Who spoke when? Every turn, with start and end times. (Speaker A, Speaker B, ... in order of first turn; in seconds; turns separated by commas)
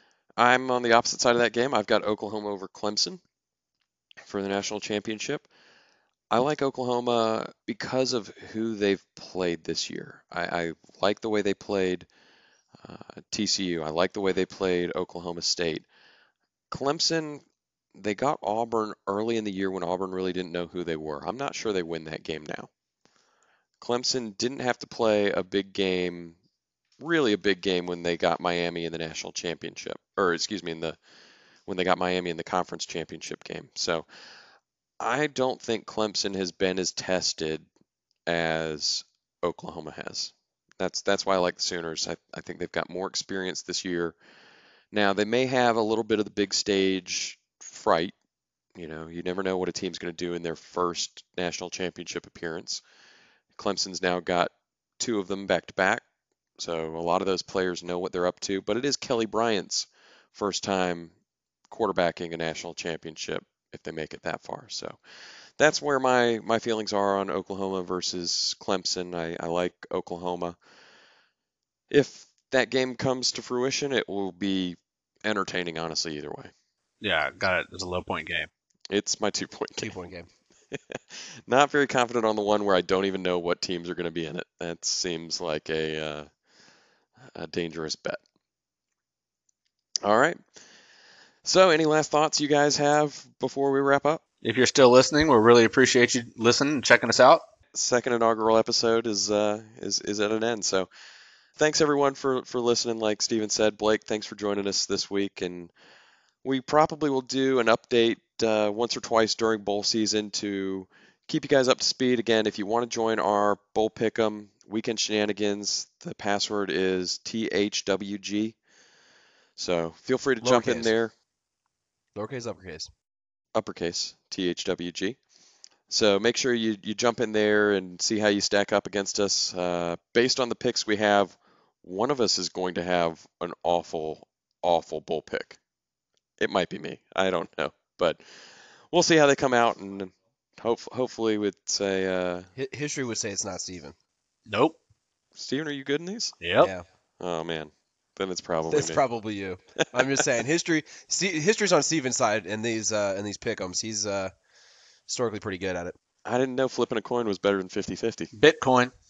Speaker A: 0.4-3.2, Speaker A: 4.3-5.5, Speaker A: 6.3-12.1, Speaker A: 12.8-15.8, Speaker A: 16.7-17.4, Speaker A: 17.9-22.7, Speaker A: 23.8-26.4, Speaker A: 27.0-31.0, Speaker A: 31.6-34.1, Speaker A: 35.0-37.6, Speaker A: 38.3-44.1, Speaker A: 44.9-48.1, Speaker A: 48.7-52.8, Speaker A: 53.5-56.0, Speaker A: 56.6-61.1, Speaker A: 61.7-65.0, Speaker A: 65.6-70.6, Speaker A: 71.9-76.5, Speaker B: 77.0-78.5, Speaker A: 78.9-79.9, Speaker C: 79.8-80.3, Speaker A: 80.7-86.3, Speaker A: 87.3-88.2, Speaker A: 90.0-90.4, Speaker A: 91.4-94.2, Speaker B: 94.4-97.4, Speaker A: 97.7-100.9, Speaker A: 101.6-105.7, Speaker A: 106.4-118.5, Speaker A: 119.6-121.1, Speaker C: 120.4-120.9, Speaker C: 122.1-122.9, Speaker A: 123.5-125.2, Speaker A: 125.9-135.6, Speaker A: 136.4-142.5, Speaker C: 142.6-143.9, Speaker B: 144.5-144.8, Speaker A: 145.3-146.4, Speaker B: 146.4-146.7, Speaker C: 146.6-146.8, Speaker A: 147.2-149.0, Speaker C: 148.7-154.3, Speaker C: 155.1-155.9, Speaker A: 156.2-158.3, Speaker B: 158.3-158.9